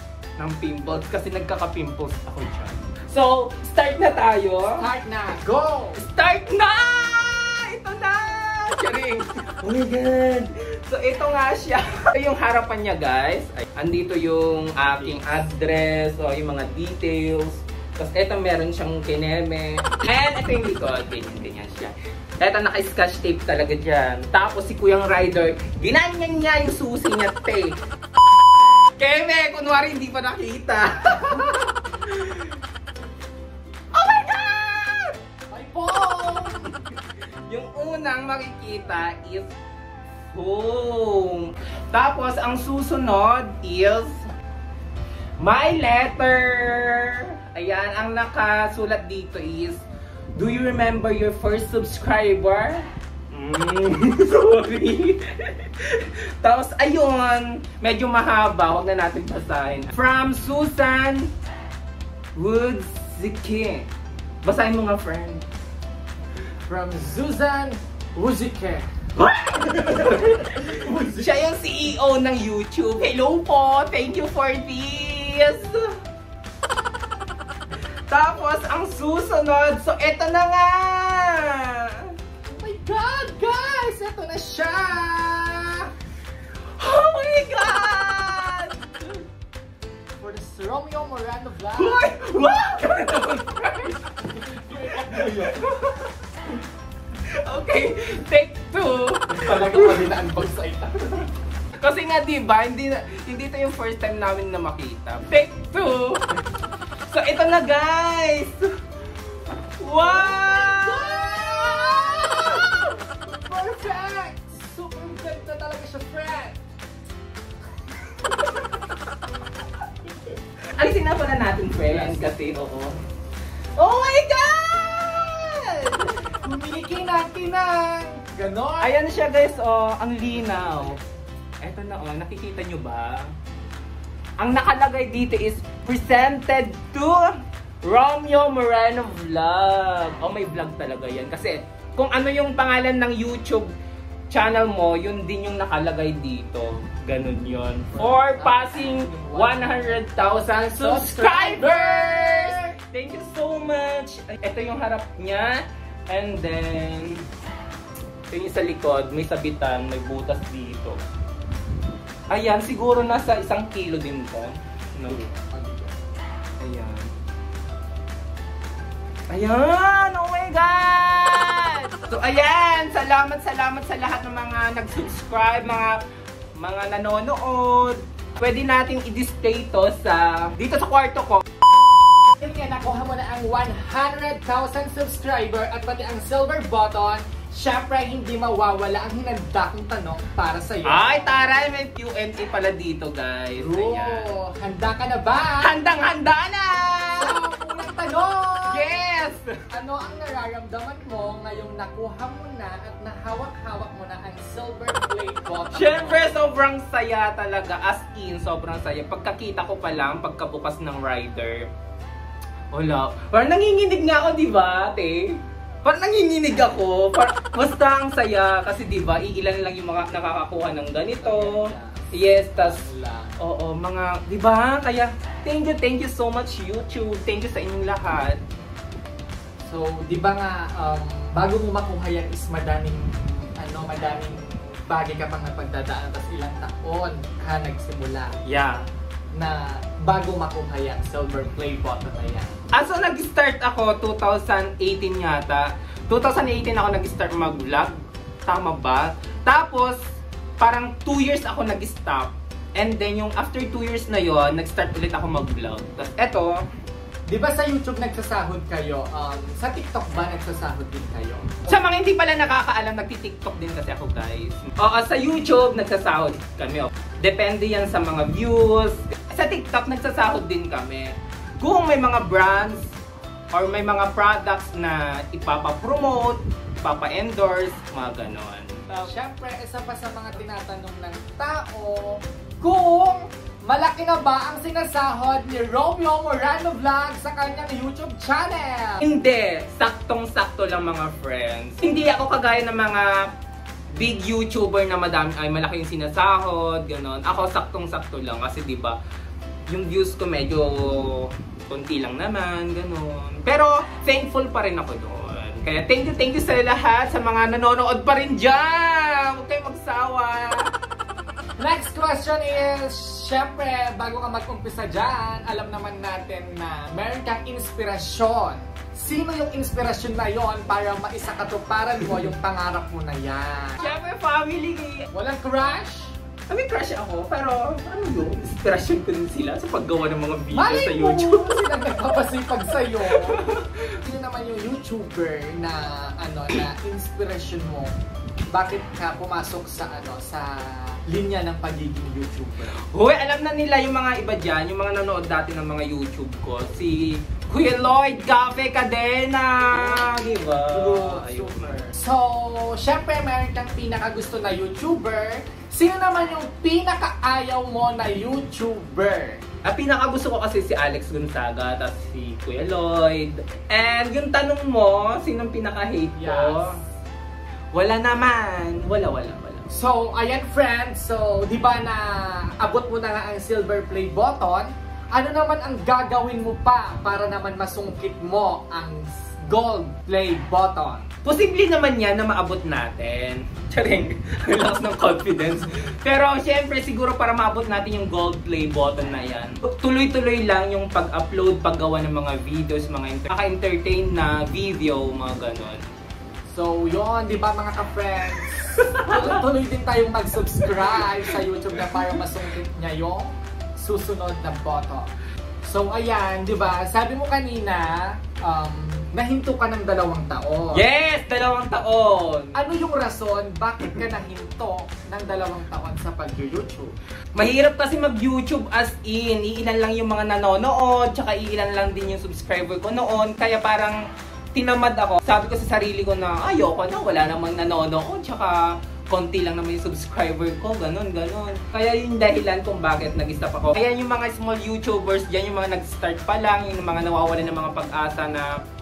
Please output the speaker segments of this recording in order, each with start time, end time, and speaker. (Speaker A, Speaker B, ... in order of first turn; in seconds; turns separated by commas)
Speaker A: 0.4-4.9, Speaker B: 4.8-6.0, Speaker A: 6.0-27.8, Speaker A: 28.6-32.5, Speaker A: 33.9-35.1, Speaker B: 35.5-36.7, Speaker A: 36.1-36.5, Speaker A: 37.5-39.5, Speaker A: 40.3-44.2, Speaker A: 45.4-49.8, Speaker A: 50.4-61.3, Speaker A: 62.4-63.9, Speaker A: 64.4-65.4, Speaker B: 66.7-69.0, Speaker A: 69.2-75.9, Speaker B: 69.6-71.3, Speaker A: 78.1-82.1, Speaker B: 82.5-85.9, Speaker A: 86.8-89.2, Speaker B: 90.2-92.1, Speaker A: 91.7-96.2, Speaker B: 94.4-95.7, Speaker A: 97.3-100.1, Speaker B: 99.3-101.3, Speaker A: 101.8-106.3, Speaker A: 107.1-108.7, Speaker A: 109.8-112.8, Speaker B: 110.0-116.6, Speaker A: 120.8-123.0, Speaker B: 121.9-122.2, Speaker A: 123.8-126.3, Speaker B: 126.4-128.9, Speaker A: 128.8-131.0, Speaker B: 130.6-130.9, Speaker A: 131.6-133.3, Speaker A: 134.4-143.7, Speaker A: 144.3-157.2, Speaker B: 147.9-152.6, Speaker A: 158.3-161.0, Speaker A: 162.3-165.2, Speaker B: 165.1-165.9, Speaker A: 166.6-167.1, Speaker A: 169.3-176.0, Speaker A: 176.6-181.4, Speaker B: 182.4-191.4, Speaker A: 190.8-194.3, Speaker B: 193.6-195.8, Speaker A: 195.6-197.4, Speaker B: 197.2-199.0, Speaker A: 198.6-199.6, Speaker B: 199.7-206.3, Speaker A: 205.7-211.7, Speaker A: 212.7-222.8, Speaker B: 221.2-223.4, Speaker A: 223.4-228.4, Speaker B: 229.7-238.4, Speaker A: 238.4-238.9, Speaker B: 239.3-242.5, Speaker A: 242.7-247.9, Speaker A: 248.5-250.0, Speaker A: 250.6-256.6, Speaker B: 257.3-261.8, Speaker A: 261.7-272.9, Speaker A: 273.5-279.1, Speaker B: 279.0-289.0, Speaker A: 289.0-293.3, Speaker A: 293.9-299.0, Speaker A: 299.7-310.7, Speaker B: 311.6-323.9, Speaker A: 323.8-325.1, Speaker B: 325.1-326.1, Speaker A: 326.5-331.6, Speaker B: 330.5-337.9, Speaker A: 333.1-333.7, Speaker B: 338.5-342.8, Speaker A: 342.9-351.7, Speaker B: 349.7-359.4, Speaker A: 359.6-366.8, Speaker B: 366.2-366.8, Speaker A: 367.7-369.7, Speaker B: 369.7-381.1, Speaker A: 381.2-395.8, Speaker B: 396.5-405.1, Speaker A: 398.8-399.4, Speaker A: 401.1-402.2, Speaker B: 405.6-410.8, Speaker A: 410.7-412.6, Speaker B: 412.5-416.9, Speaker A: 417.3-424.0, Speaker A: 424.5-438.6